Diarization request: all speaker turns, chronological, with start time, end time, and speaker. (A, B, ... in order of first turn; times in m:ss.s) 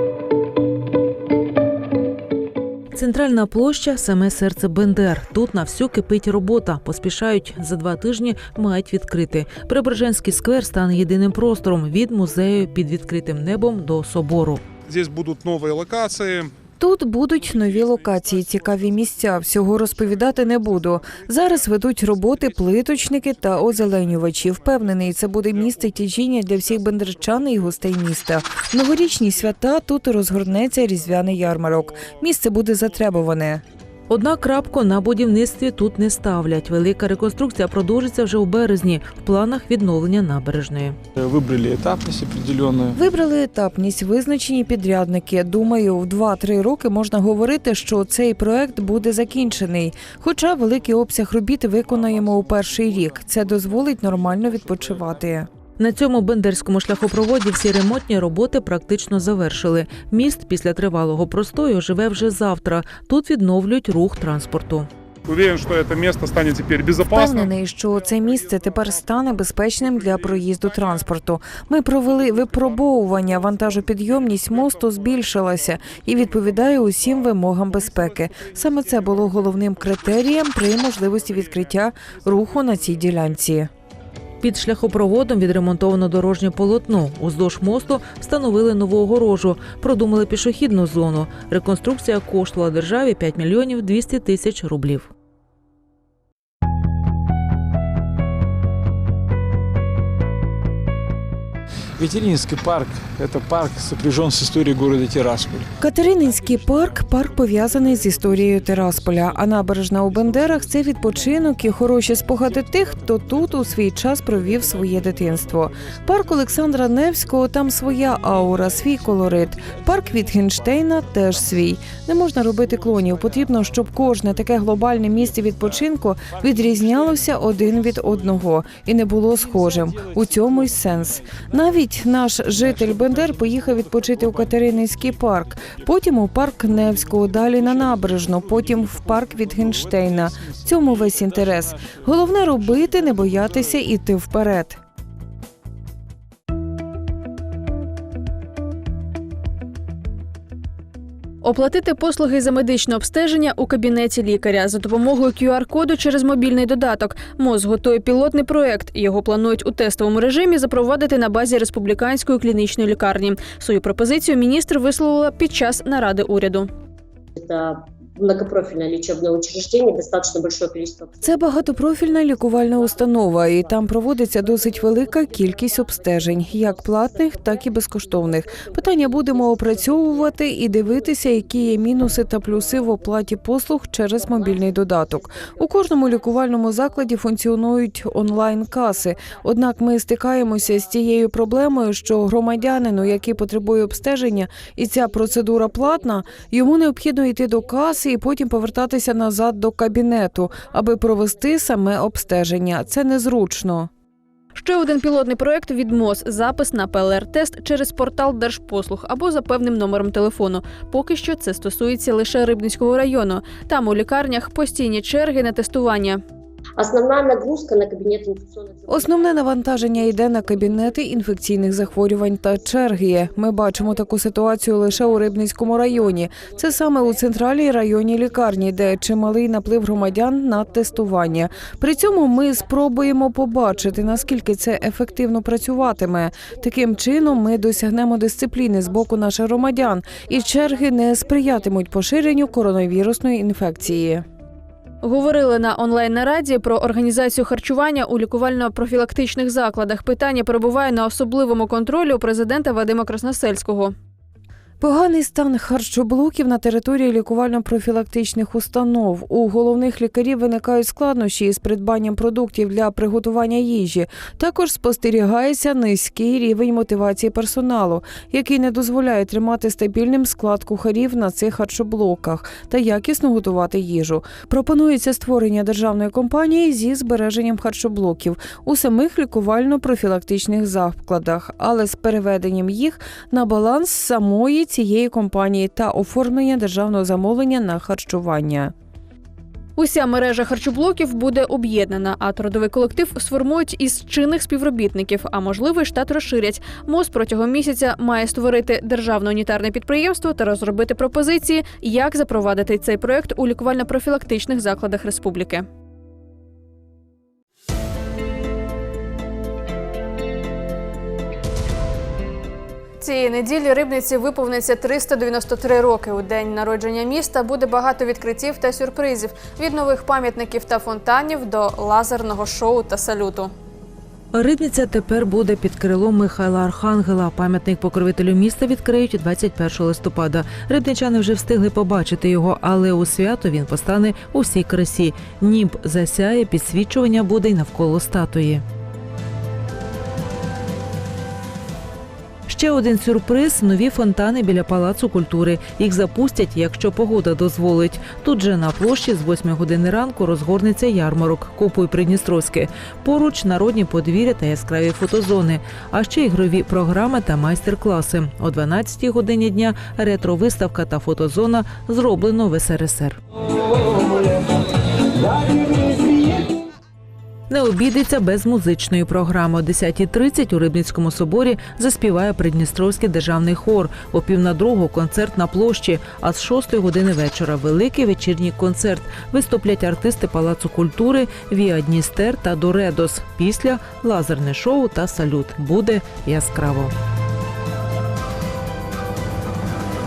0:02.9-0:14.6 A
0:14.9-0:16.5 B
0:16.8-0:33.6 C
0:18.4-0:19.0 A
0:34.1-0:41.0 A
0:41.2-0:42.9 D
0:42.9-0:55.5 C
0:55.8-1:04.9 A
1:05.3-1:07.4 B
1:07.0-1:23.7 C
1:24.4-1:35.1 A
1:42.0-1:45.7 D
1:45.8-2:24.8 C
1:46.6-1:47.1 D
1:47.7-1:48.8 D
1:50.3-1:50.6 D
1:52.6-1:53.2 D
1:54.4-1:56.0 D
1:58.2-1:59.8 D
2:06.7-2:08.2 D
2:09.8-2:10.1 D
2:11.2-2:11.5 D
2:12.6-2:15.9 D
2:16.7-2:21.2 D
2:22.6-2:23.5 D
2:31.4-2:46.7 E
2:47.4-3:02.2 F
2:51.2-3:23.9 C
3:04.2-3:06.2 F
3:24.5-3:36.2 E
3:36.8-3:42.1 F
3:38.9-4:04.2 C
4:05.0-4:13.9 E
4:14.8-4:48.7 C
4:49.8-5:05.6 E
5:13.0-5:23.5 E
5:24.3-5:38.6 A
5:42.5-6:03.2 A
6:07.5-6:26.9 A